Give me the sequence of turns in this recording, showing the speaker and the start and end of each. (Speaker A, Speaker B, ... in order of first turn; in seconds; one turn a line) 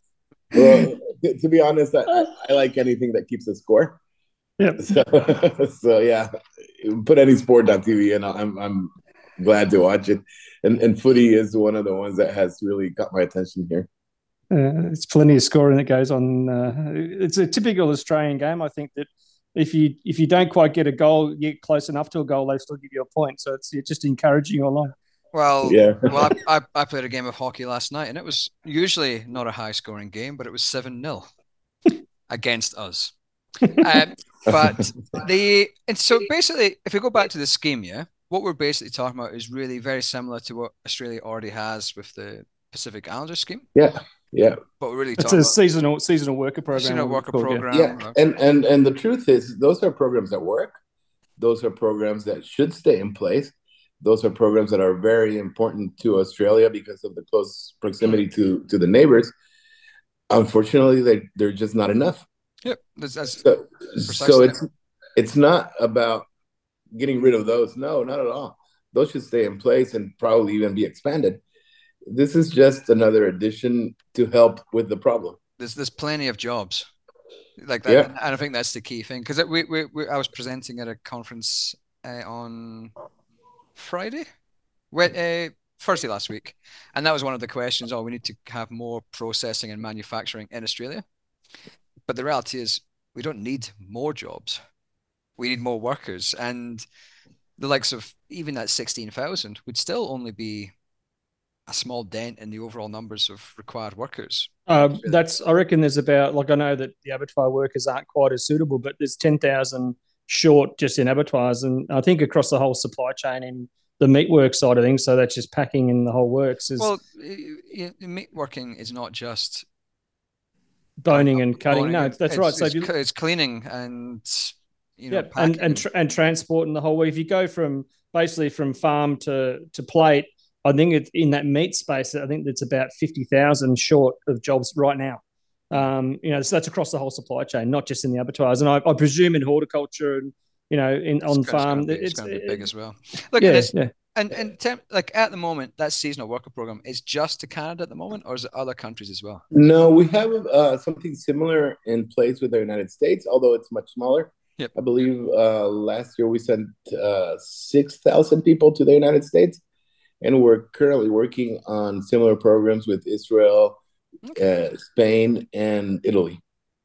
Speaker A: 0.5-4.0
Speaker A: 4.8-13.9
Speaker B: 14.5-24.9
Speaker C: 25.3-31.3
Speaker A: 25.6-26.3
Speaker C: 32.3-33.1
Speaker C: 33.6-43.6
Speaker A: 43.7-44.6
Speaker C: 44.8-45.5
Speaker B: 45.2-47.6
Speaker C: 46.7-48.1
Speaker A: 47.7-50.8
Speaker A: 51.4-59.3
Speaker A: 60.3-62.2
Speaker C: 62.6-63.5
Speaker A: 63.4-64.6
Speaker C: 64.0-64.6
Speaker A: 65.2-66.3
Speaker A: 66.9-71.4
Speaker A: 72.1-75.4
Speaker C: 75.6-76.9
Speaker C: 77.6-82.9
Speaker C: 83.8-84.2
Speaker C: 84.9-91.0
Speaker C: 92.1-94.6
Speaker C: 95.4-96.8
Speaker C: 97.6-100.7
Speaker C: 101.7-105.1
Speaker B: 104.7-116.9
Speaker C: 116.8-119.6
Speaker B: 121.0-122.9
Speaker C: 121.1-125.8
Speaker B: 125.1-142.6
Speaker C: 141.3-149.4
Speaker B: 143.4-143.9
Speaker A: 149.5-159.6
Speaker A: 160.2-163.8
Speaker C: 164.2-164.5
Speaker A: 164.4-166.4